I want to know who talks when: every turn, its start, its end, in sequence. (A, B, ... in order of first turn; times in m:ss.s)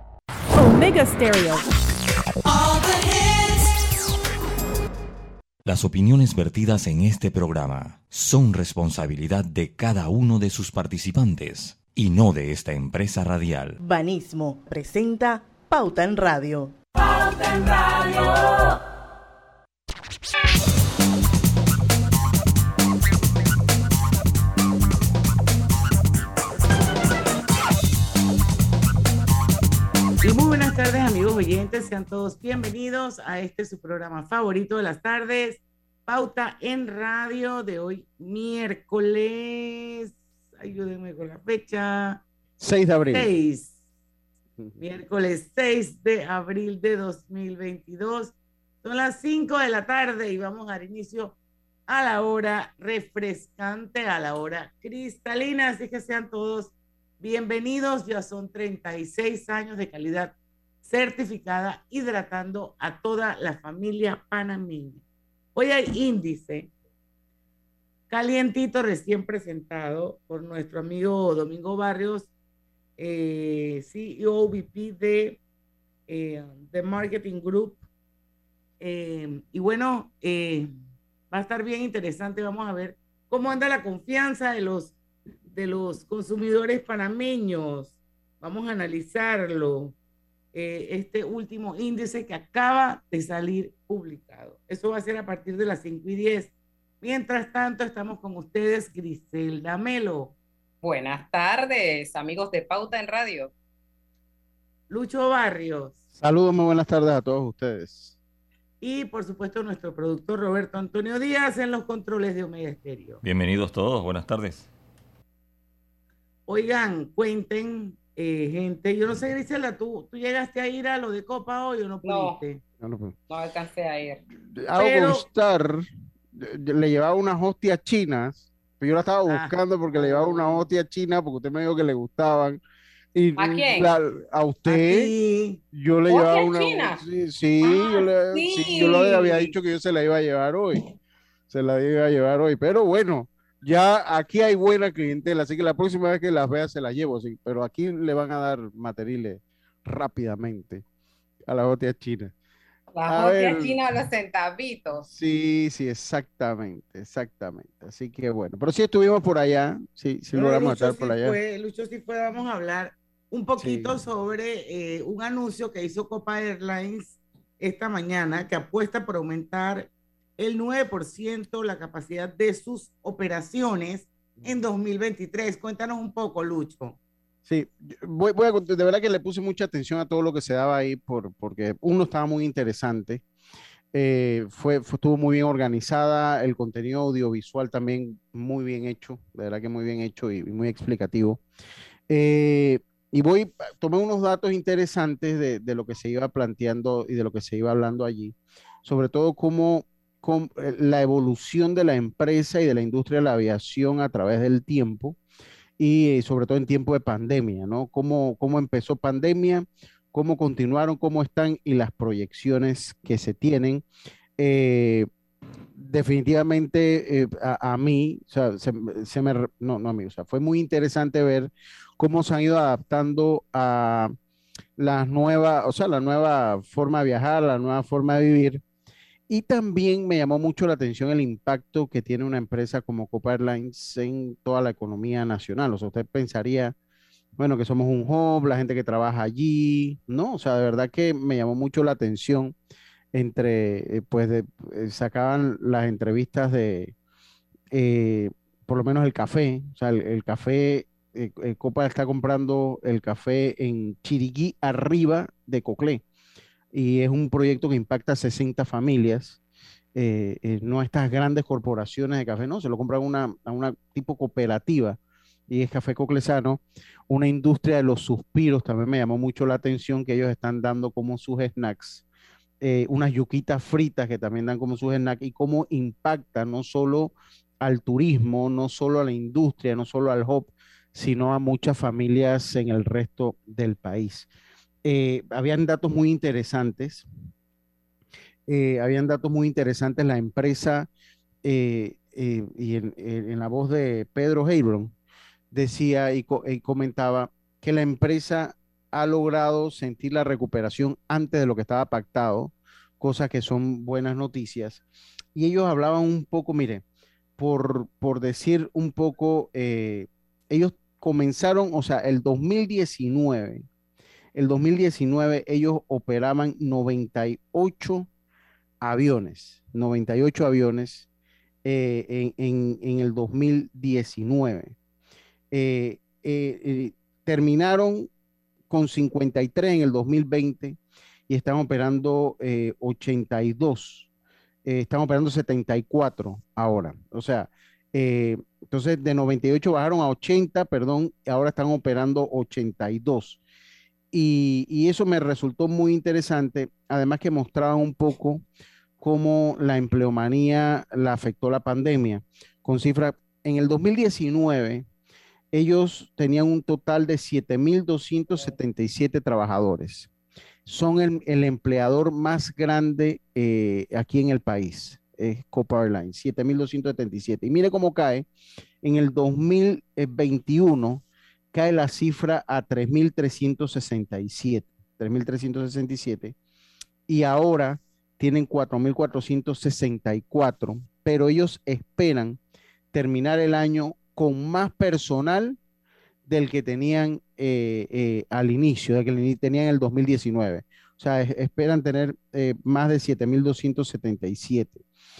0:05.6-0:13.8 A
0:13.8-0:16.7 B
0:30.2-0:42.2 C
0:42.6-0:43.3 D
0:43.1-0:43.8 C
0:44.8-0:51.3 C
0:51.9-1:05.0 C
1:05.5-1:06.7 C
1:08.1-1:12.3 C
1:13.0-1:15.4 C
1:16.1-1:17.8 C
1:18.8-1:20.7 C
1:21.3-1:24.9 C
1:25.5-1:29.9 C
1:30.5-1:40.3 C
1:40.8-1:43.5 E
1:44.9-1:46.0 C
1:46.2-1:48.1 D
1:48.8-1:53.2 C
1:53.2-1:54.7 A
1:56.5-2:02.6 C
2:02.0-2:02.4 E
2:02.8-2:03.1 D
2:03.3-2:04.2 E
2:04.5-2:12.6 D
2:04.8-2:05.2 C
2:10.0-2:10.3 E
2:13.1-2:15.1 D
2:13.4-2:13.9 E
2:14.7-2:15.6 C
2:15.7-2:20.8 D
2:16.1-2:17.0 E
2:17.6-2:19.5 E
2:21.5-2:30.8 D
2:31.5-2:32.3 D
2:32.9-2:35.0 E
2:33.1-2:33.8 D
2:35.1-2:41.4 D
2:40.3-2:49.9 C
2:43.6-2:44.0 D
2:50.4-2:57.0 C
2:57.4-3:03.2 D
3:03.9-3:11.4 D
3:12.1-3:25.2 D
3:25.8-3:33.8 D
3:34.4-3:35.1 D
3:35.8-3:44.1 D
3:44.8-3:48.6 D
3:49.3-3:56.7 D
3:57.4-4:02.5 D
4:03.1-4:06.9 D
4:07.7-4:16.0 D
4:16.7-4:19.4 D
4:19.9-4:25.0 D
4:25.5-4:32.0 D
4:32.6-4:44.3 D
4:44.8-4:47.0 D
4:48.5-4:50.9 D
4:51.4-4:54.9 D
4:55.5-5:04.8 D
5:05.3-5:06.8 D
5:07.4-5:13.6 D
5:14.3-5:18.1 D
5:18.8-5:21.1 D
5:21.6-5:24.7 D
5:25.5-5:28.1 D
5:28.7-5:30.8 D
5:31.3-5:34.1 D
5:34.6-5:43.4 D
5:44.1-5:48.4 D
5:49.0-5:54.9 D
5:55.5-6:00.1 D
6:00.6-6:08.2 D
6:08.8-6:16.3 D
6:17.1-6:22.4 D
6:22.9-6:25.6 D
6:26.2-6:34.8 D